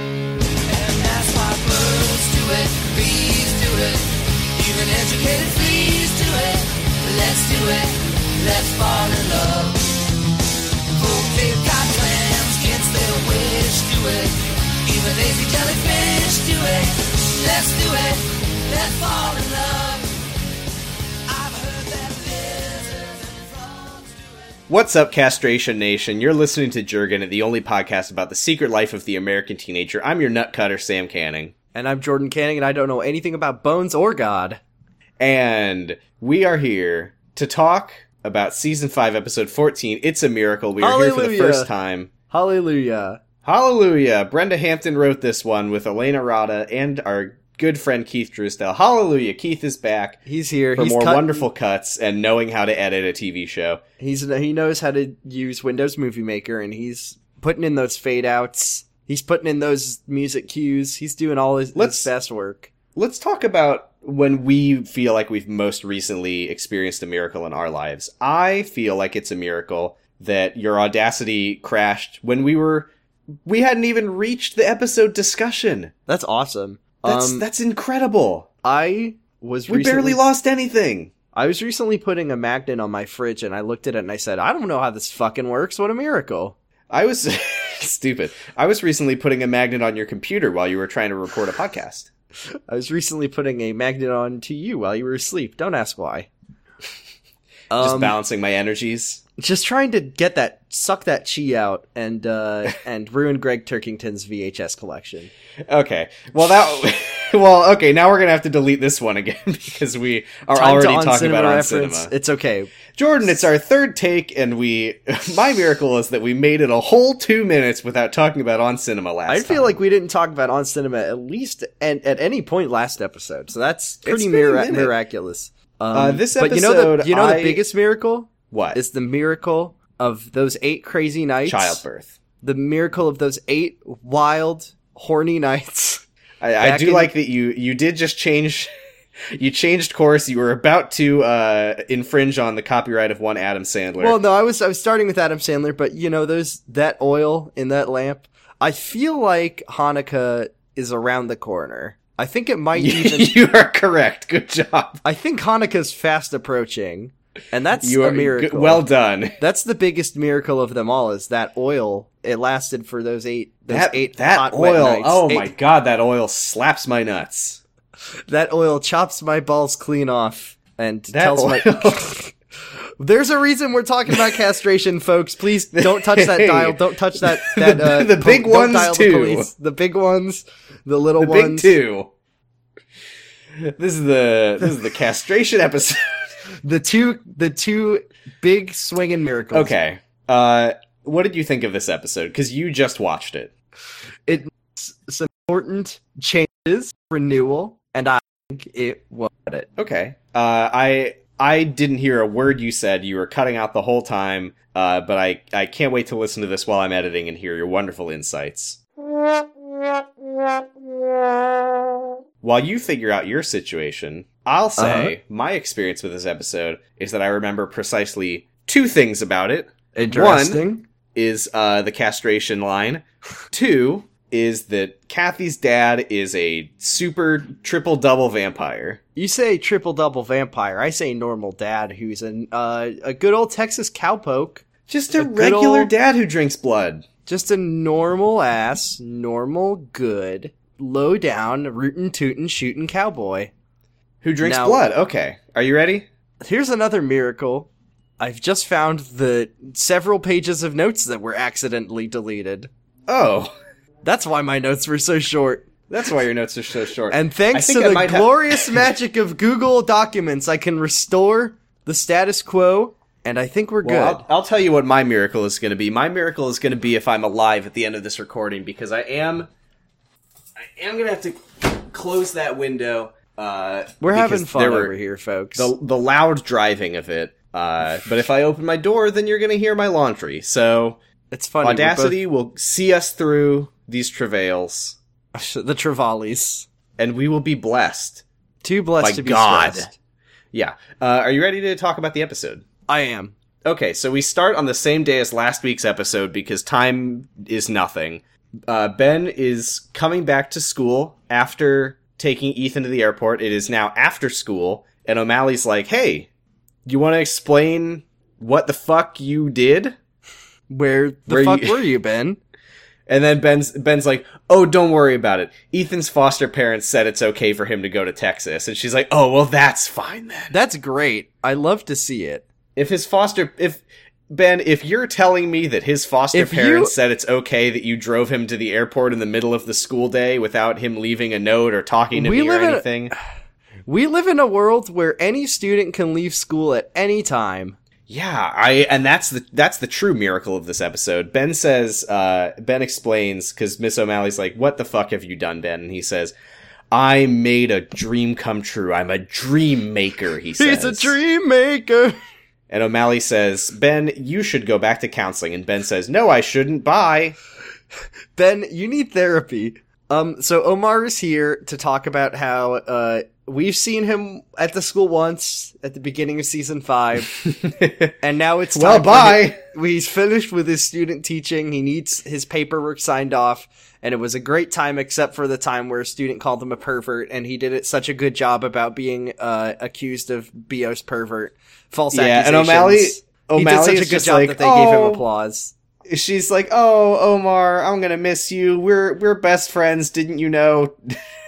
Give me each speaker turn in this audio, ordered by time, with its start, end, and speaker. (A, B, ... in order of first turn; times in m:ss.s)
0:00.7-0:10.0 A
0:10.9-0:20.3 A
0:21.3-0:24.6 A
0:24.7-0:31.5 B
0:31.7-0:34.6 C
0:35.2-0:42.1 B
0:40.8-0:41.7 C
0:42.3-0:43.2 C
0:43.4-0:50.2 B
0:50.2-0:51.5 C
0:50.8-0:53.8 B
0:54.0-1:02.7 C
1:01.7-1:02.1 B
1:02.9-1:12.9 B
1:13.4-1:15.9 B
1:16.1-1:17.4 C
1:17.0-1:18.5 B
1:18.6-1:20.2 C
1:19.7-1:21.1 B
1:21.3-1:26.6 C
1:26.9-1:32.1 B
1:32.7-1:36.3 C
1:37.7-1:38.2 C
1:37.8-1:39.2 B
1:39.4-1:45.3 C
1:45.7-1:52.1 B
1:50.5-1:52.7 C
1:52.9-1:59.8 B
1:59.3-2:11.8 C
2:04.0-2:04.9 B
2:05.9-2:07.6 B
2:08.5-2:08.8 B
2:11.4-2:12.1 B
2:12.4-2:16.0 C
2:16.4-2:18.7 B
2:16.6-2:17.1 C
2:19.3-2:24.2 B
2:24.0-2:33.3 C
2:32.8-2:35.0 B
2:35.0-2:38.9 C
2:37.8-2:39.4 B
2:39.4-2:45.5 C
2:43.7-2:47.6 B
2:48.3-2:52.3 C
2:51.1-2:52.1 B
2:53.0-3:01.7 C
2:55.7-2:59.5 B
3:01.2-3:02.1 B
3:03.6-3:06.2 B
3:06.6-3:09.7 C
3:09.5-3:13.5 B
3:14.3-3:19.7 C
3:19.8-3:28.8 B
3:32.4-3:40.6 B
3:34.8-3:35.1 C
3:39.9-3:40.8 C
3:41.1-3:49.0 B
3:49.1-3:54.6 C
3:54.9-3:57.0 B
3:55.1-3:55.9 C
3:57.2-4:03.5 C
4:04.2-4:06.1 B
4:04.4-4:04.8 C
4:06.4-4:12.7 C
4:13.1-4:13.5 B
4:14.0-4:15.7 C
4:15.9-4:18.8 B
4:17.1-4:24.2 C
4:23.8-4:29.5 B
4:30.6-4:34.9 B
4:34.0-4:35.7 C
4:35.5-4:41.0 B
4:41.3-4:42.2 C
4:41.6-4:45.0 B
4:45.3-4:46.7 C
4:47.0-4:48.2 B
4:48.6-4:49.9 C
4:49.0-4:49.9 B
4:50.5-4:52.6 B
4:52.9-4:53.4 C
4:53.6-5:06.3 B
5:06.8-5:10.0 B
5:10.7-5:12.4 C
5:11.3-5:11.8 B
5:13.1-5:20.5 B
5:20.5-5:22.4 C
5:22.8-5:33.1 B
5:26.3-5:26.9 C
5:32.1-5:32.9 C
5:33.9-5:37.8 C
5:38.1-5:46.3 B
5:46.9-5:51.2 B
5:50.6-5:52.2 C
5:52.7-5:57.4 B
5:58.4-6:07.3 C
6:07.4-6:08.1 B
6:08.2-6:25.7 C
6:08.7-6:09.6 B
6:22.1-6:25.2 B
6:26.0-6:31.2 B